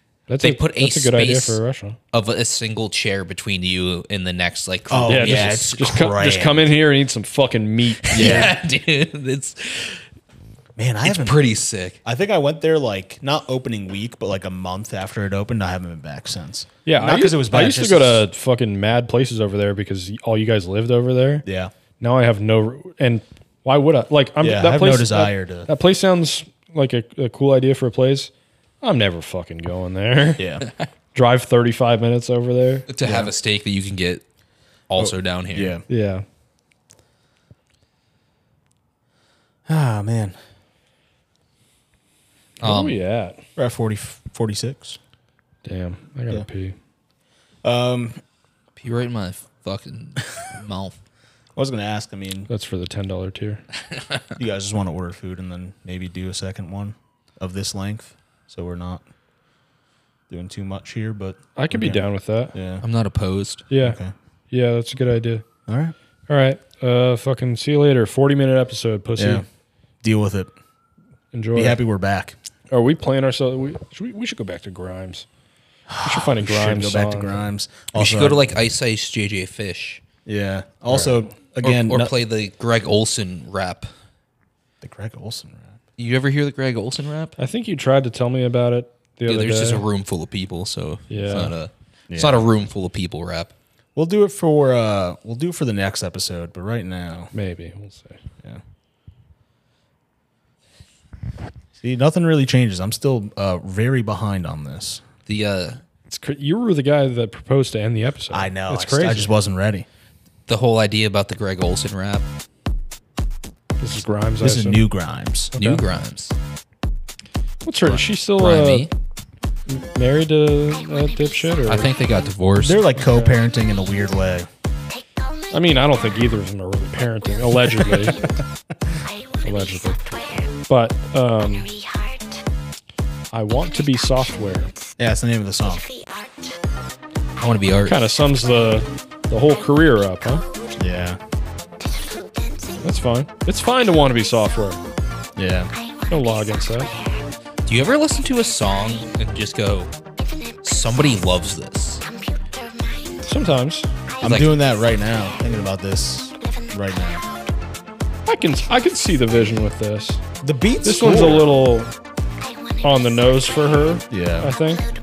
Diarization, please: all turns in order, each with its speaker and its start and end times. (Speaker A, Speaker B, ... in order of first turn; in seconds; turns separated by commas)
Speaker A: 0.3-2.0, Speaker B: 0.4-1.6, Speaker B: 2.1-5.9, Speaker C: 4.9-6.7, Speaker A: 5.1-8.5, Speaker B: 8.1-10.0, Speaker C: 8.1-8.5, Speaker C: 10.8-11.5, Speaker B: 11.0-12.0, Speaker C: 12.0-18.2, Speaker A: 16.8-21.4, Speaker C: 21.4-21.7, Speaker A: 22.0-28.3, Speaker C: 24.4-25.7, Speaker A: 28.8-30.4, Speaker C: 30.4-30.7, Speaker A: 31.1-32.9, Speaker B: 32.9-34.2, Speaker C: 33.0-33.3, Speaker B: 34.9-35.8, Speaker C: 35.0-35.8, Speaker A: 35.9-36.2, Speaker C: 39.7-40.3, Speaker B: 42.6-43.0, Speaker A: 42.6-43.4, Speaker C: 43.5-45.0, Speaker A: 45.6-46.7, Speaker C: 47.6-48.2, Speaker B: 48.8-51.0, Speaker C: 51.5-52.5, Speaker A: 52.5-53.6, Speaker B: 53.9-54.2, Speaker C: 54.4-59.0, Speaker C: 60.3-62.0, Speaker A: 61.5-62.5, Speaker C: 62.5-62.8, Speaker B: 62.8-63.6, Speaker A: 63.7-64.0, Speaker C: 63.8-64.1, Speaker A: 64.5-65.4, Speaker C: 65.7-65.9, Speaker A: 66.3-69.4, Speaker C: 69.2-69.4, Speaker C: 70.0-70.5, Speaker A: 71.3-71.8, Speaker C: 71.5-72.3, Speaker A: 72.7-75.2, Speaker C: 75.9-78.5, Speaker A: 76.0-77.4, Speaker B: 77.9-80.0, Speaker C: 80.2-82.1, Speaker B: 81.6-83.9, Speaker C: 84.8-85.8, Speaker B: 86.0-87.3, Speaker A: 87.4-89.8, Speaker B: 89.2-93.5, Speaker A: 91.1-91.5, Speaker C: 92.1-92.4, Speaker C: 93.9-97.3, Speaker A: 97.3-98.2, Speaker C: 101.8-105.0, Speaker B: 105.3-105.8, Speaker A: 106.1-109.3, Speaker C: 108.3-109.9, Speaker B: 110.5-112.2, Speaker A: 113.8-114.8, Speaker C: 114.4-115.6, Speaker A: 115.5-115.8, Speaker B: 115.5-116.3, Speaker A: 117.6-118.9, Speaker B: 117.9-118.9, Speaker A: 119.7-121.9, Speaker B: 121.7-122.8, Speaker C: 122.6-124.5, Speaker A: 123.0-123.4, Speaker A: 125.5-128.2, Speaker A: 129.4-131.8, Speaker A: 133.3-134.7, Speaker C: 135.0-135.9, Speaker B: 137.4-138.0, Speaker A: 137.8-140.4, Speaker C: 140.8-141.2, Speaker A: 142.8-144.8, Speaker C: 145.3-145.7, Speaker A: 146.1-146.9, Speaker B: 147.7-149.9, Speaker B: 150.6-152.0, Speaker A: 153.2-153.9, Speaker B: 154.2-154.5, Speaker C: 154.2-157.2, Speaker A: 158.2-160.2, Speaker C: 160.4-161.5, Speaker A: 160.8-161.9, Speaker A: 162.8-164.8, Speaker C: 164.1-164.5